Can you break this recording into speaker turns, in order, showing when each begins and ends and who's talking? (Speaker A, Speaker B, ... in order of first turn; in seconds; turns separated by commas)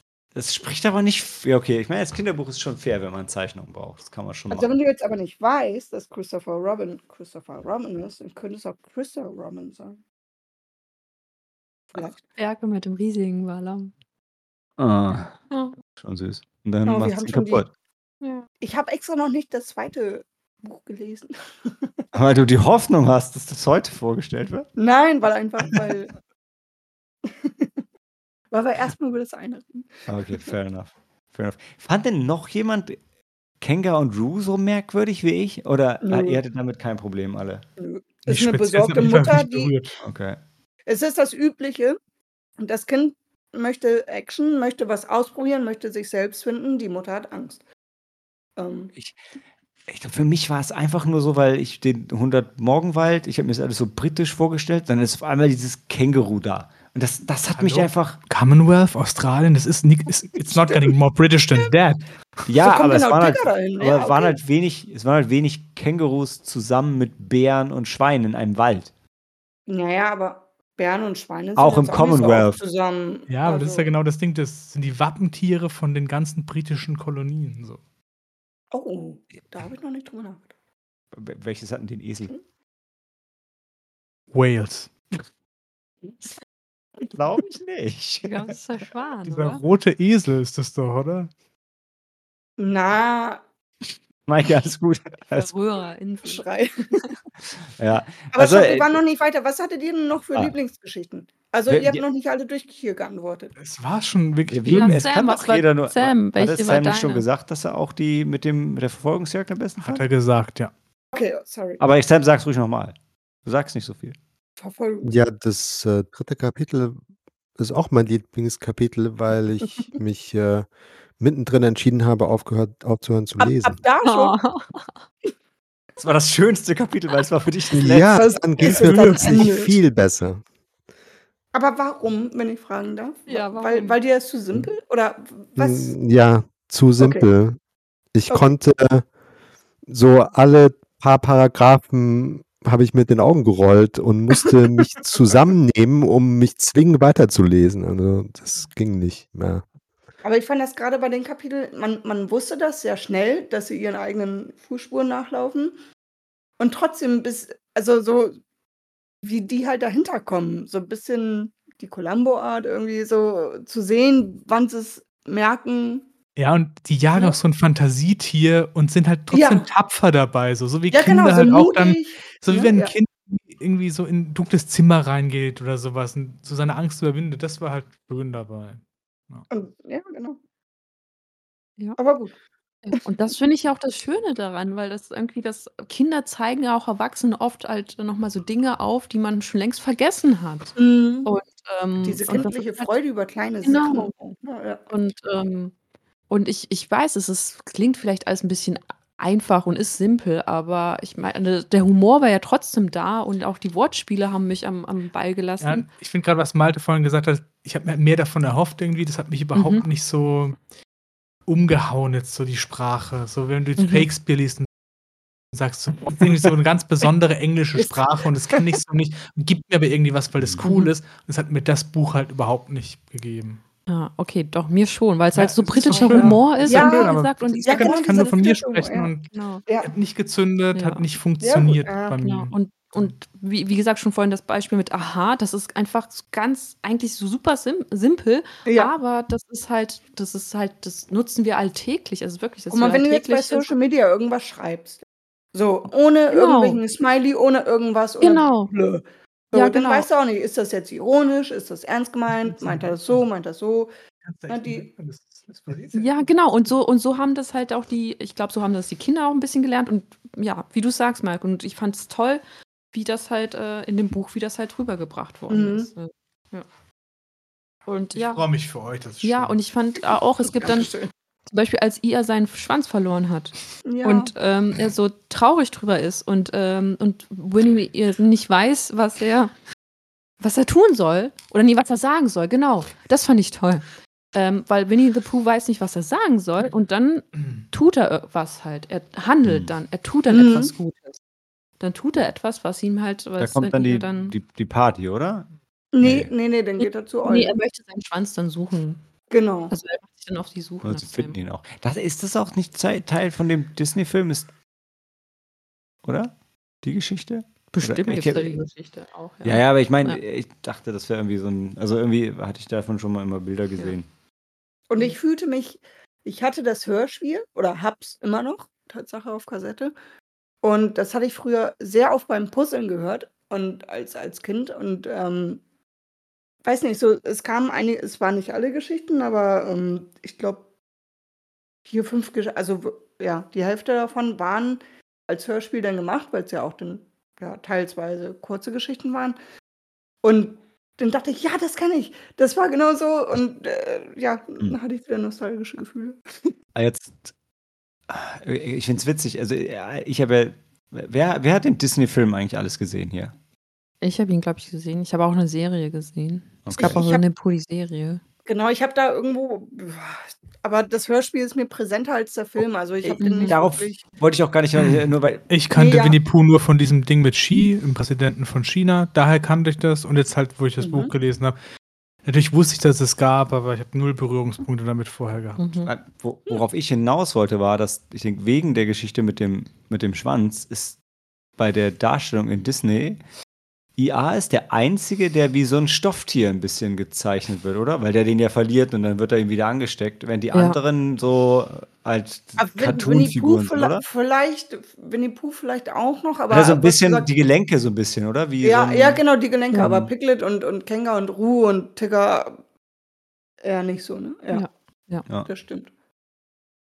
Speaker A: 0.3-4.7, Speaker B: 4.5-10.0, Speaker B: 11.9-12.2, Speaker C: 12.4-13.9, Speaker A: 14.8-15.3, Speaker C: 15.5-15.8, Speaker A: 16.0-17.7, Speaker B: 16.9-17.6, Speaker C: 18.2-18.5, Speaker B: 18.6-21.9, Speaker A: 22.1-24.7, Speaker B: 24.8-26.1, Speaker B: 27.3-27.7, Speaker B: 28.5-30.1, Speaker A: 30.1-33.0, Speaker A: 33.6-37.6, Speaker B: 36.0-36.4, Speaker B: 37.8-39.7, Speaker D: 38.3-40.0, Speaker A: 40.0-40.4, Speaker B: 40.9-42.0, Speaker B: 42.6-47.6, Speaker B: 48.6-48.9, Speaker A: 49.9-58.2, Speaker D: 57.5-62.5, Speaker B: 60.6-60.9, Speaker A: 62.5-68.9, Speaker B: 62.6-64.4, Speaker B: 69.7-73.9, Speaker A: 71.6-72.6, Speaker D: 73.3-77.8, Speaker B: 78.7-80.5, Speaker A: 81.1-82.3, Speaker D: 84.3-85.2, Speaker A: 87.0-88.5, Speaker C: 88.2-89.6, Speaker D: 89.2-91.3, Speaker B: 92.6-93.4, Speaker A: 94.3-95.5, Speaker C: 95.3-96.5, Speaker B: 96.2-97.0, Speaker A: 97.8-99.0, Speaker B: 98.3-103.5, Speaker A: 101.7-102.0, Speaker D: 103.6-105.0, Speaker A: 104.5-110.0, Speaker C: 104.7-107.3, Speaker D: 109.8-110.7, Speaker B: 111.1-111.8, Speaker A: 111.8-114.2, Speaker B: 114.6-115.1, Speaker E: 115.0-117.0, Speaker E: 117.6-120.7, Speaker E: 121.2-123.8, Speaker B: 123.4-124.4, Speaker C: 124.0-124.9, Speaker A: 126.0-129.5, Speaker E: 127.7-130.4, Speaker B: 128.1-129.7, Speaker B: 131.5-135.9, Speaker C: 133.3-134.0, Speaker E: 135.6-137.6, Speaker B: 137.0-137.2, Speaker E: 138.2-139.1, Speaker E: 139.9-149.6, Speaker B: 150.2-155.8, Speaker B: 156.6-158.4, Speaker B: 159.2-166.1, Speaker D: 166.4-179.5, Speaker B: 169.3-169.7, Speaker B: 170.9-172.9, Speaker B: 179.5-180.4, Speaker B: 182.0-182.3, Speaker C: 182.8-192.9, Speaker B: 190.8-191.3, Speaker B: 192.0-194.8, Speaker C: 193.6-194.1, Speaker C: 194.9-195.7, Speaker C: 196.3-205.9, Speaker D: 205.6-210.6, Speaker C: 209.5-209.8, Speaker D: 211.5-214.7, Speaker C: 213.8-214.1, Speaker D: 215.5-223.6, Speaker A: 220.4-220.7, Speaker C: 220.6-220.9, Speaker C: 223.9-228.3, Speaker D: 225.3-233.1, Speaker B: 225.9-229.1, Speaker C: 229.3-229.6, Speaker C: 230.7-231.0, Speaker B: 231.4-232.2, Speaker C: 232.2-243.7, Speaker B: 238.7-238.9, Speaker B: 242.7-245.0, Speaker B: 245.5-253.9, Speaker C: 246.3-246.8, Speaker C: 248.2-248.7, Speaker C: 249.5-250.1, Speaker D: 252.3-253.2, Speaker D: 254.2-256.3, Speaker B: 254.5-254.9, Speaker C: 255.9-262.4, Speaker C: 262.9-266.7, Speaker B: 265.5-265.9, Speaker C: 267.9-268.5, Speaker D: 268.1-269.6, Speaker C: 269.2-270.9, Speaker B: 270.6-271.1, Speaker C: 271.5-279.5, Speaker B: 273.9-274.3, Speaker C: 280.4-291.2, Speaker D: 287.4-287.6, Speaker A: 289.4-289.7, Speaker B: 290.3-290.7, Speaker C: 291.8-294.4, Speaker A: 293.4-295.5, Speaker B: 295.9-297.6, Speaker A: 296.0-296.3, Speaker C: 296.8-299.0, Speaker B: 299.3-299.7, Speaker C: 299.7-301.4, Speaker A: 300.8-304.5, Speaker A: 306.0-306.3, Speaker A: 306.8-308.6, Speaker C: 307.7-310.2, Speaker A: 309.4-314.1, Speaker B: 314.9-319.9, Speaker B: 320.6-325.6, Speaker B: 326.6-330.6, Speaker B: 331.9-339.4, Speaker B: 340.2-346.5, Speaker A: 346.8-347.3, Speaker A: 348.1-353.3, Speaker C: 354.0-358.2, Speaker A: 356.6-357.0, Speaker B: 356.8-357.2, Speaker B: 358.5-364.1, Speaker A: 363.1-365.5, Speaker C: 363.2-363.6, Speaker D: 364.8-371.6, Speaker B: 365.8-366.2, Speaker B: 370.8-371.1, Speaker D: 372.3-375.6, Speaker C: 375.6-375.9, Speaker A: 375.9-381.0, Speaker A: 381.6-383.2, Speaker A: 384.0-394.1, Speaker C: 390.5-390.8, Speaker B: 392.6-397.3, Speaker A: 396.5-399.2, Speaker B: 398.6-402.6, Speaker A: 399.8-400.1, Speaker B: 403.6-404.6, Speaker C: 404.5-405.3, Speaker B: 405.5-405.9